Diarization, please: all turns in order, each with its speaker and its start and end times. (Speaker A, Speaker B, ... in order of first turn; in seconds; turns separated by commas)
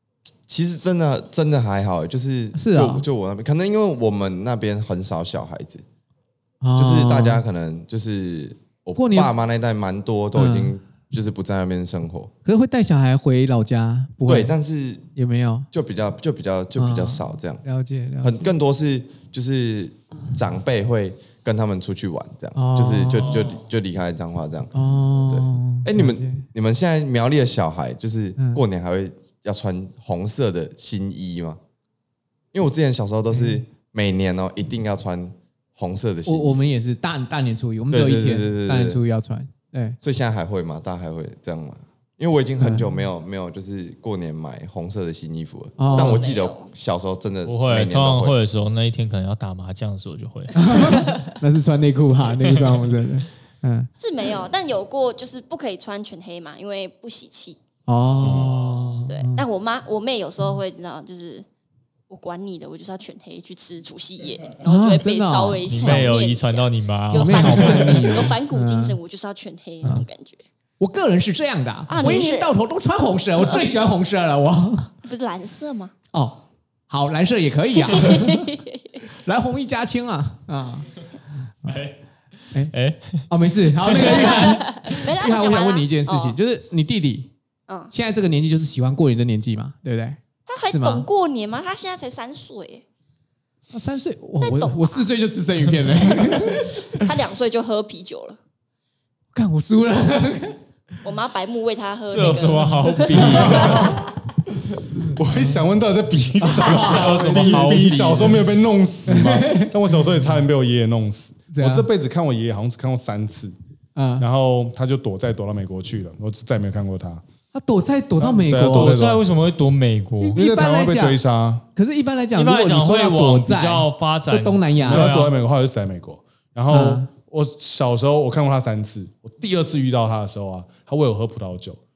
Speaker A: 0.5-5.8, Speaker B: 2.5-3.0, Speaker B: 6.6-7.4, Speaker A: 6.7-12.3, Speaker B: 8.9-9.3, Speaker B: 10.3-10.7, Speaker B: 12.4-14.5, Speaker A: 14.2-15.1, Speaker B: 15.1-15.7, Speaker A: 15.7-17.6, Speaker B: 16.8-18.5, Speaker A: 18.2-24.7, Speaker B: 22.5-23.5, Speaker C: 23.1-23.6, Speaker B: 24.7-26.4, Speaker A: 25.2-31.6, Speaker B: 28.4-28.6, Speaker A: 32.5-36.6, Speaker B: 33.3-33.6, Speaker B: 36.2-40.0, Speaker A: 37.9-39.0, Speaker A: 40.0-48.4, Speaker B: 42.6-42.9, Speaker B: 45.8-46.2, Speaker D: 45.9-46.7, Speaker C: 47.5-51.0, Speaker B: 50.5-53.9, Speaker D: 54.0-57.6, Speaker B: 57.9-59.4, Speaker C: 58.2-59.1, Speaker D: 59.1-61.5, Speaker D: 62.1-70.4, Speaker B: 64.6-66.1, Speaker C: 65.7-68.3, Speaker B: 67.1-69.0, Speaker B: 70.8-74.9, Speaker D: 71.9-72.5, Speaker D: 75.0-75.9, Speaker B: 76.1-78.5, Speaker D: 77.9-78.8, Speaker B: 79.1-80.9, Speaker C: 81.6-82.0, Speaker C: 82.7-83.2, Speaker B: 83.3-87.3, Speaker C: 83.8-84.5, Speaker D: 84.0-86.4, Speaker B: 87.9-91.0, Speaker D: 90.5-92.8, Speaker B: 93.7-97.1, Speaker D: 94.4-95.1, Speaker D: 96.1-98.4, Speaker B: 99.3-100.6, Speaker D: 101.0-104.0, Speaker C: 102.1-104.0, Speaker B: 103.3-103.9, Speaker B: 105.0-105.6, Speaker E: 105.1-113.5, Speaker B: 106.4-107.9, Speaker C: 106.6-108.5, Speaker B: 109.1-109.7, Speaker B: 111.5-111.9, Speaker B: 114.0-114.2, Speaker E: 114.2-117.2, Speaker B: 117.5-119.0, Speaker E: 118.2-119.2, Speaker C: 118.6-120.4, Speaker B: 120.2-121.2, Speaker E: 120.3-121.6, Speaker B: 121.7-125.1, Speaker C: 122.3-125.3, Speaker E: 124.8-131.8, Speaker B: 126.7-127.1